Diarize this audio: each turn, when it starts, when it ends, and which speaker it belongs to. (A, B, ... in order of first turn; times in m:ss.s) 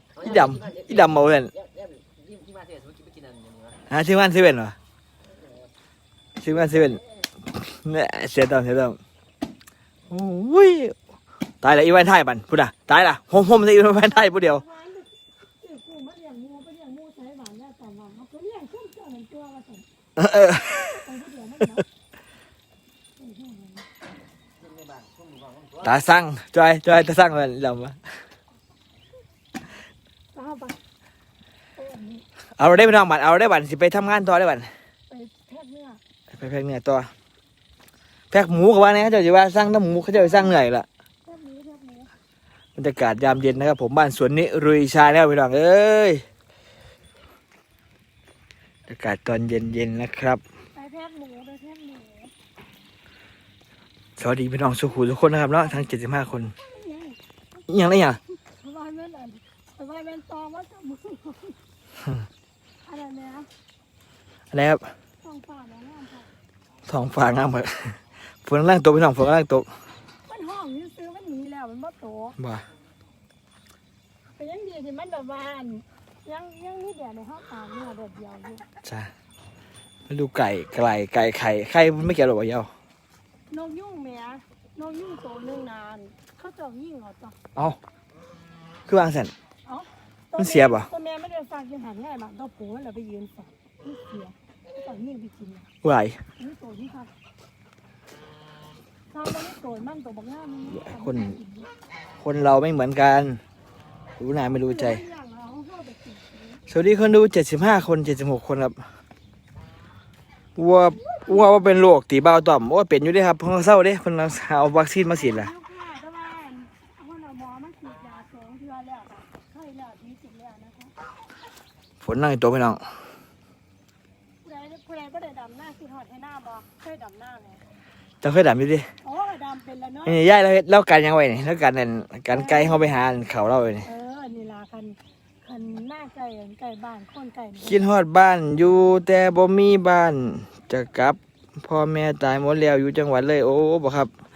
0:00.2-0:03.8 A
0:00.2-0:01.5 B
0:03.9-0:04.8 B
0:05.4-0:05.7 A
0:06.4-0:07.0 B
0:07.5-0:09.0 B
0:10.1-0:11.0 B
0:11.6-0:14.6 B
0:14.4-0:19.8 C
0:20.2-0:20.9 B
0:20.8-0:21.8 C
0:23.2-0:23.8 C
0:24.6-0:26.0 A
0:25.8-0:28.0 B
0:30.3-0:30.8 C
0:31.8-0:32.2 C
0:32.6-0:34.7 B
0:35.1-0:36.0 C
0:36.3-0:37.1 B
0:38.3-0:40.9 B
0:40.1-0:40.6 C
0:41.2-0:42.1 C
0:42.8-0:46.2 B
0:48.9-0:50.4 B
0:50.8-0:52.3 C
0:54.2-0:56.5 B
0:56.6-0:57.2 C
0:57.7-0:58.2 B
0:58.5-1:01.6 C
1:02.8-1:03.5 C
1:04.5-1:04.8 B
1:05.2-1:06.3 C
1:06.9-1:09.7 B
1:10.2-1:12.4 C
1:12.4-1:12.6 B
1:14.4-1:18.6 C
1:18.8-1:19.1 B
1:20.1-1:22.7 B
1:23.5-1:27.4 C
1:28.9-1:29.3 B
1:29.6-1:35.7 C
1:30.4-1:30.9 B
1:35.8-1:36.2 B
1:36.4-1:37.1 C
1:39.1-1:41.7 C
1:40.7-1:41.4 B
1:42.2-1:43.4 B
1:44.2-1:45.0 B
1:44.5-1:46.6 C
1:46.7-1:48.8 B
1:50.6-1:55.5 B
1:51.0-1:51.6 C
1:55.1-2:00.9 C
2:02.0-2:02.8 B
2:04.4-2:07.6 C
2:08.2-2:08.9 B
2:09.0-2:10.2 C
2:10.1-2:13.9 B
2:12.3-2:12.8 C
2:13.8-2:17.8 C
2:17.6-2:24.1 B